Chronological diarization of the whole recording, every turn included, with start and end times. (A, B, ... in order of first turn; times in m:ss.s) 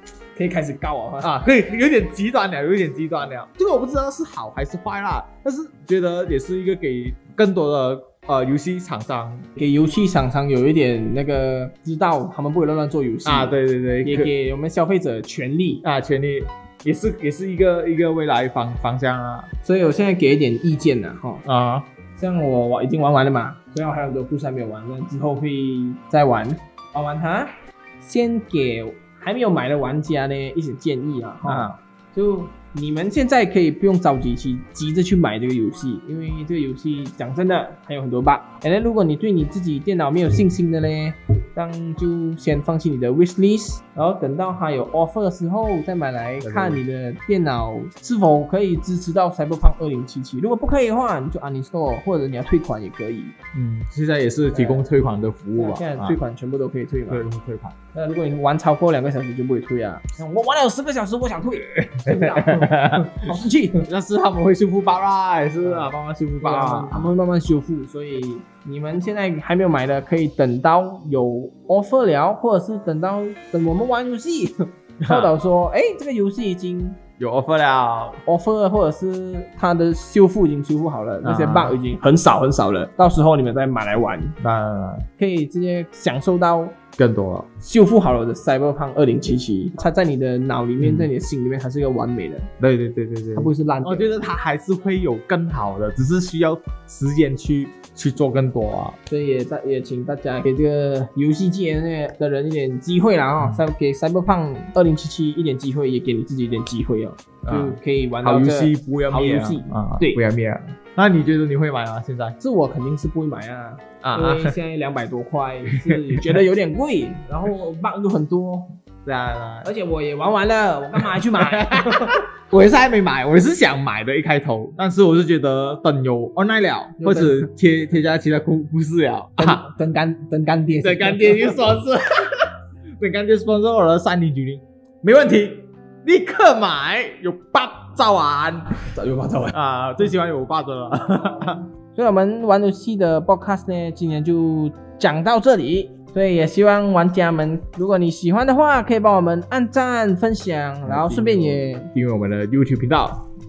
0:00.4-0:01.3 A
0:01.2-0:09.5 B
0:09.6-0:15.8 A
0:13.2-0:14.3 B
0:15.8-0:19.5 B
0:19.6-0:21.4 A
0:21.4-0:21.9 B
0:22.2-0:53.3 A
0:31.4-0:31.8 B
0:46.4-0:46.8 B
0:53.5-0:56.2 B
0:54.5-0:54.8 A
0:55.6-0:57.2 A
0:57.1-0:57.8 B
0:57.9-1:03.8 A
1:01.8-1:07.1 B
1:05.6-1:17.0 A
1:15.0-1:15.3 B
1:17.2-1:18.2 B
1:18.2-1:24.4 A
1:21.2-1:21.8 B
1:24.4-1:25.0 B
1:25.2-1:26.8 A
1:27.0-1:27.5 B
1:27.6-1:32.5 A
1:30.8-1:31.1 B
1:32.6-1:39.0 B
1:33.3-1:34.1 A
1:39.1-1:50.2 A
1:47.4-1:52.4 B
1:52.4-1:58.7 A
1:54.0-1:54.6 B
1:55.7-1:56.4 B
1:59.0-1:59.7 B
1:59.6-2:02.2 A
2:01.0-2:09.6 B
2:07.0-2:07.5 A
2:09.4-2:11.6 A
2:10.8-2:18.9 B
2:18.9-2:19.5 A
2:19.5-2:21.6 B
2:21.9-2:31.9 A
2:30.8-2:33.2 B